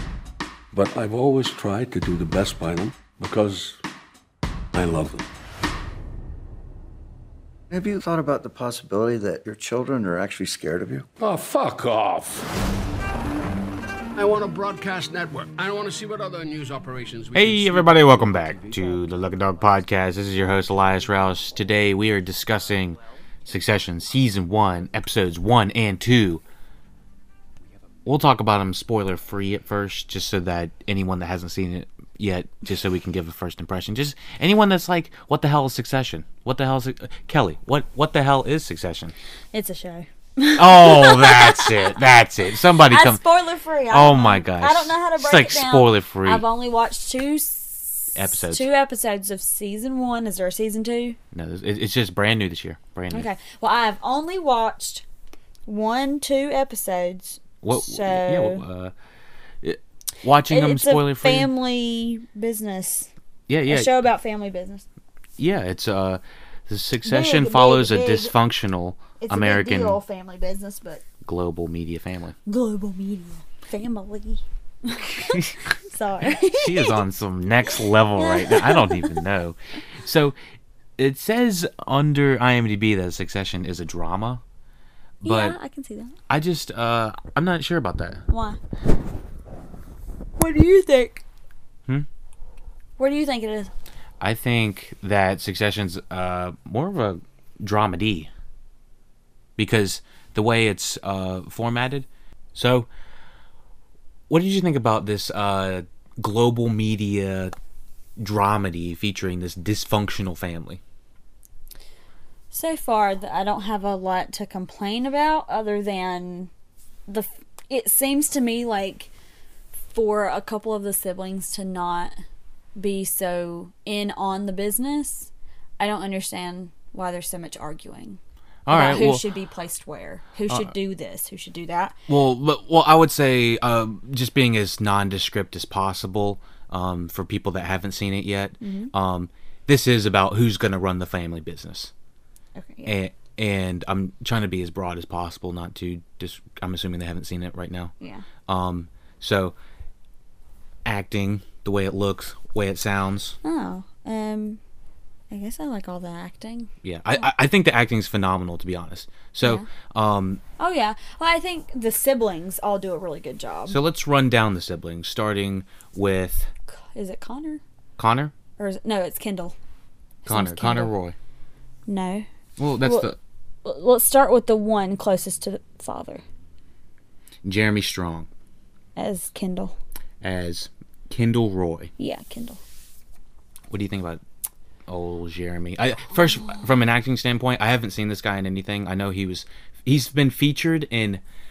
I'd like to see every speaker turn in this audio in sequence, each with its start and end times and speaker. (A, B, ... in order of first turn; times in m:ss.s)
0:00.7-0:03.8 A
0:04.7-0:05.3 A
0:07.7-0:11.1 B
0:11.2-0:12.6 A
0:14.2-0:18.1 C
0:17.3-0:26.4 D
0:28.0-0:39.1 D
0:39.5-0:42.0 E
0:40.6-0:43.2 D
0:42.8-0:51.2 E
0:43.9-0:46.5 D
0:48.1-0:48.7 D
0:51.3-0:53.3 D
0:53.1-0:55.0 E
0:55.7-0:58.6 E
0:57.6-0:58.9 D
0:59.6-1:01.5 D
1:00.5-1:03.1 E
1:03.5-1:04.0 D
1:03.7-1:04.9 E
1:05.4-1:10.0 D
1:07.0-1:08.4 E
1:09.2-1:11.0 E
1:11.2-1:12.4 D
1:12.5-1:17.0 E
1:16.4-1:20.4 D
1:18.2-1:19.2 E
1:21.0-1:24.4 D
1:25.2-1:25.6 D
1:25.2-1:26.2 E
1:26.3-1:28.2 D
1:28.3-1:28.6 E
1:30.4-1:31.2 E
1:33.0-1:33.7 E
1:34.2-1:38.3 D
1:39.6-1:42.9 D
1:44.3-1:47.5 D
1:48.2-1:50.8 D
1:52.5-1:56.5 E
1:57.1-1:59.1 E
1:59.8-2:02.2 E
2:02.8-2:12.0 E
2:08.7-2:09.2 D
2:12.1-2:21.9 D
2:18.6-2:18.9 E
2:22.6-2:23.0 E
2:22.9-2:27.9 D
2:28.0-2:28.2 E
2:28.5-2:29.6 D
2:30.8-2:33.4 D
2:33.4-2:34.6 E
2:35.3-2:36.7 E
2:36.8-2:40.4 D
2:40.6-2:43.8 E
2:43.7-2:46.5 D
2:46.7-2:47.6 E
2:48.0-2:48.3 D
2:48.6-2:49.6 E
2:50.2-2:50.9 E
2:50.3-2:51.2 D
2:51.9-2:52.3 E
2:52.6-2:53.2 D
2:52.8-2:53.1 E
2:53.6-2:56.2 E
2:57.4-2:58.3 D
2:59.0-2:59.8 E
3:00.2-3:01.9 D
3:02.0-3:02.6 E
3:03.7-3:04.2 D
3:04.9-3:11.2 D